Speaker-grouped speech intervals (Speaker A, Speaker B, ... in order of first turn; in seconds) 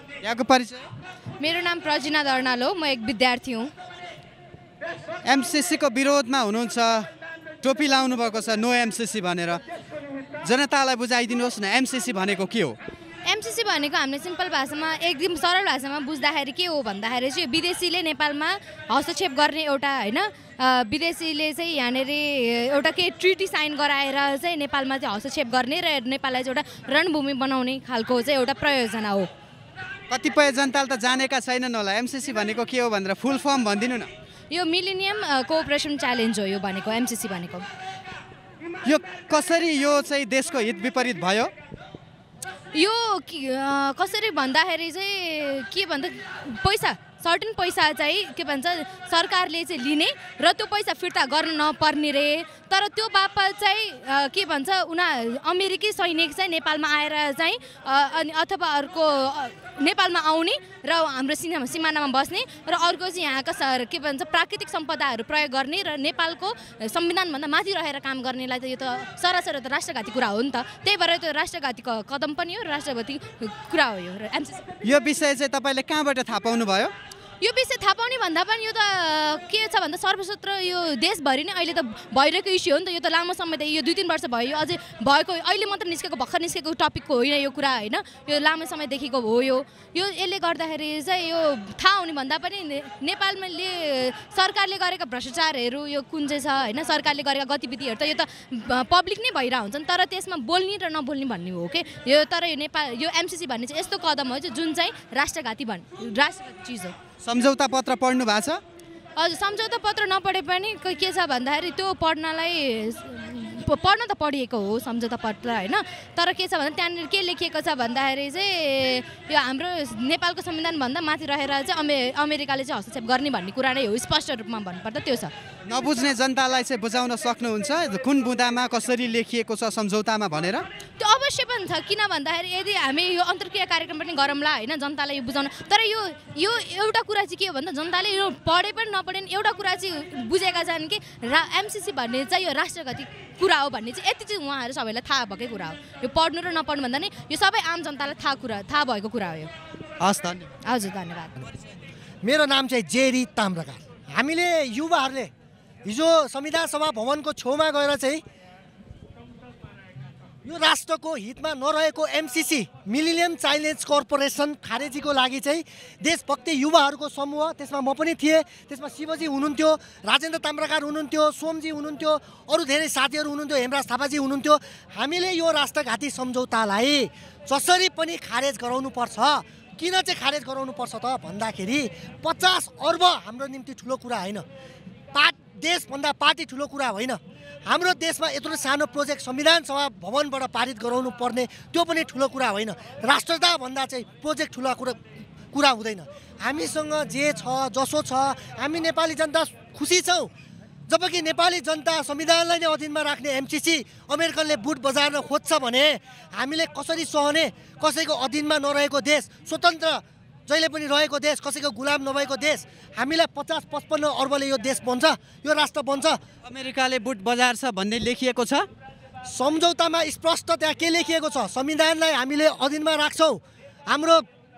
Speaker A: 0.2-0.8, 5.2-7.1, 7.6-9.6, 10.4-12.8, 30.1-34.1, 38.8-41.5, 74.8-76.9, 107.2-108.6, 125.7-130.6, 150.0-150.5, 216.4-218.7
Speaker B: 1.4-3.7, 13.2-29.3, 34.5-37.6, 42.7-74.7, 77.4-106.9, 109.2-125.3, 131.0-149.5, 150.6-151.4
Speaker C: 152.2-155.3, 155.8-158.2, 160.4-184.4, 185.1-195.0, 195.5-200.3, 200.9-216.2, 219.3-224.2